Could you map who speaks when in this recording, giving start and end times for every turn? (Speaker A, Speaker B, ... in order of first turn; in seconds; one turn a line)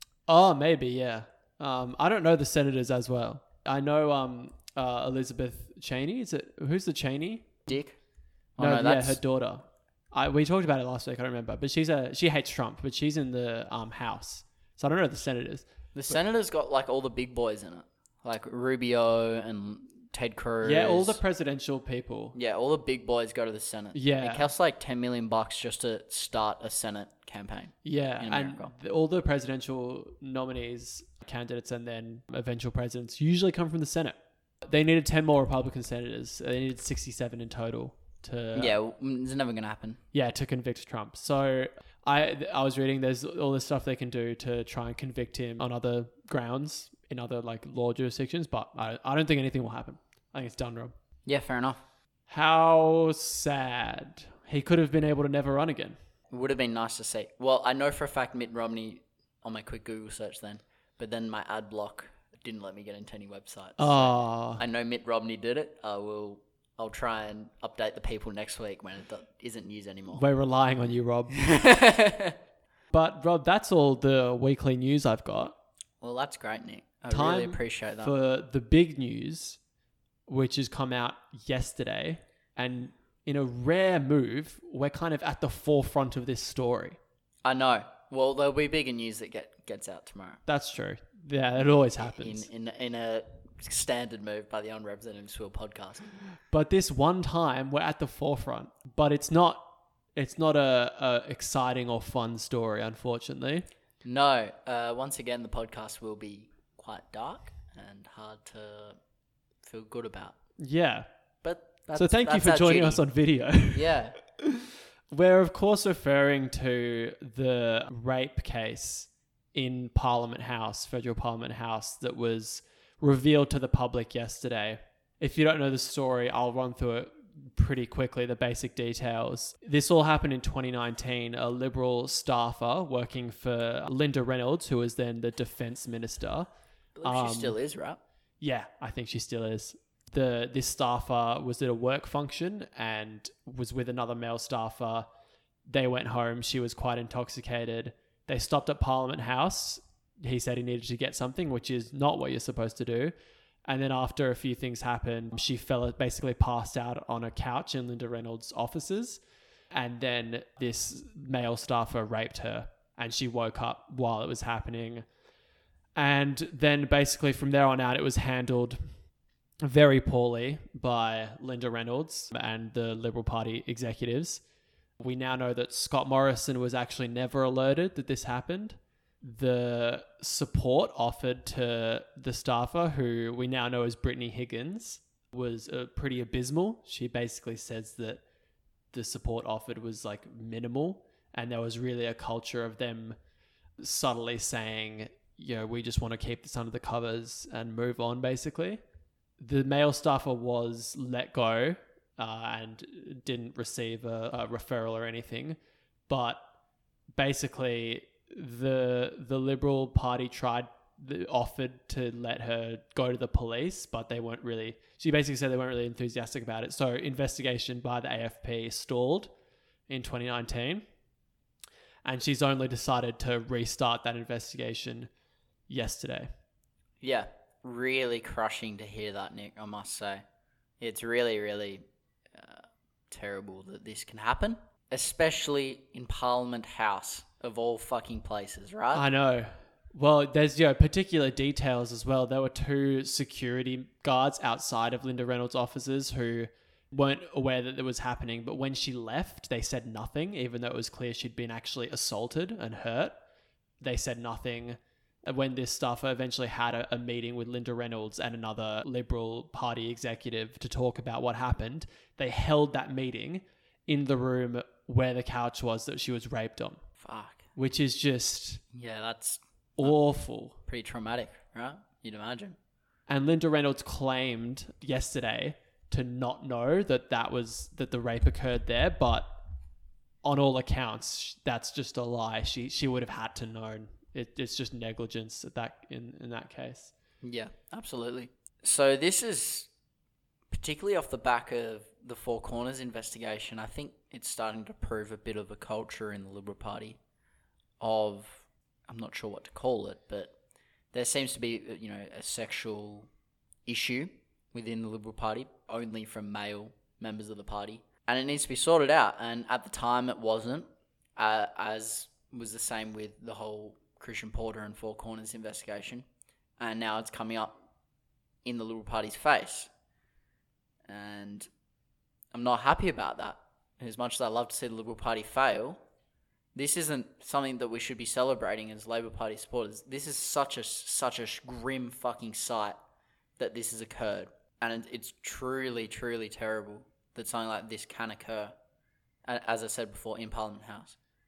Speaker A: 0.3-7.8
Speaker B: 7.7-8.0
Speaker B: 8.6-9.2
Speaker A: 8.6-15.7
Speaker B: 15.9-21.2
Speaker A: 20.6-22.4
Speaker B: 22.3-28.7
Speaker A: 23.9-24.5
Speaker A: 27.8-38.8
Speaker B: 38.5-40.0
Speaker A: 40.1-50.9
Speaker B: 51.2-51.8
Speaker A: 52.3-56.0
Speaker B: 56.3-70.2
Speaker A: 63.8-64.6
Speaker A: 70.1-71.6
Speaker B: 71.3-72.3
Speaker A: 72.9-75.5
Speaker B: 76.0-78.1
Speaker A: 77.1-79.6
Speaker A: 80.3-87.0
Speaker B: 87.4-90.4
Speaker A: 90.5-92.5
Speaker B: 91.9-96.1
Speaker A: 96.5-103.7
Speaker B: 104.0-109.0
Speaker B: 109.6-110.3
Speaker A: 110.6-111.1
Speaker B: 111.4-113.0
Speaker A: 111.9-136.5
Speaker B: 113.7-114.2
Speaker B: 136.9-138.0
Speaker A: 137.0-137.6
Speaker A: 138.4-145.1
Speaker A: 145.7-153.1
Speaker A: 153.7-165.1
Speaker A: 165.9-169.0
Speaker A: 169.6-174.4
Speaker A: 175.0-188.2
Speaker A: 188.9-193.2
Speaker A: 193.8-198.8
Speaker A: 199.4-205.6
Speaker A: 206.1-206.4
Speaker A: 207.1-219.3
Speaker A: 219.9-220.8
Speaker A: 222.0-225.1
Speaker A: 225.7-226.3
Speaker B: 227.0-230.2
Speaker B: 230.8-239.0
Speaker A: 238.9-253.2
Speaker A: 253.8-266.8
Speaker B: 267.0-267.5
Speaker A: 267.5-268.6
Speaker B: 268.7-269.9
Speaker A: 269.8-270.5
Speaker B: 270.6-272.6
Speaker A: 273.1-279.3
Speaker A: 280.2-286.9
Speaker B: 287.2-289.7
Speaker B: 290.5-297.0
Speaker B: 297.8-300.3
Speaker B: 300.9-303.1
Speaker B: 303.6-316.1
Speaker B: 316.6-317.5
Speaker B: 318.4-319.7
Speaker B: 320.9-321.5
Speaker B: 322.3-325.8
Speaker B: 326.5-332.8
Speaker B: 333.4-338.5
Speaker B: 339.3-341.0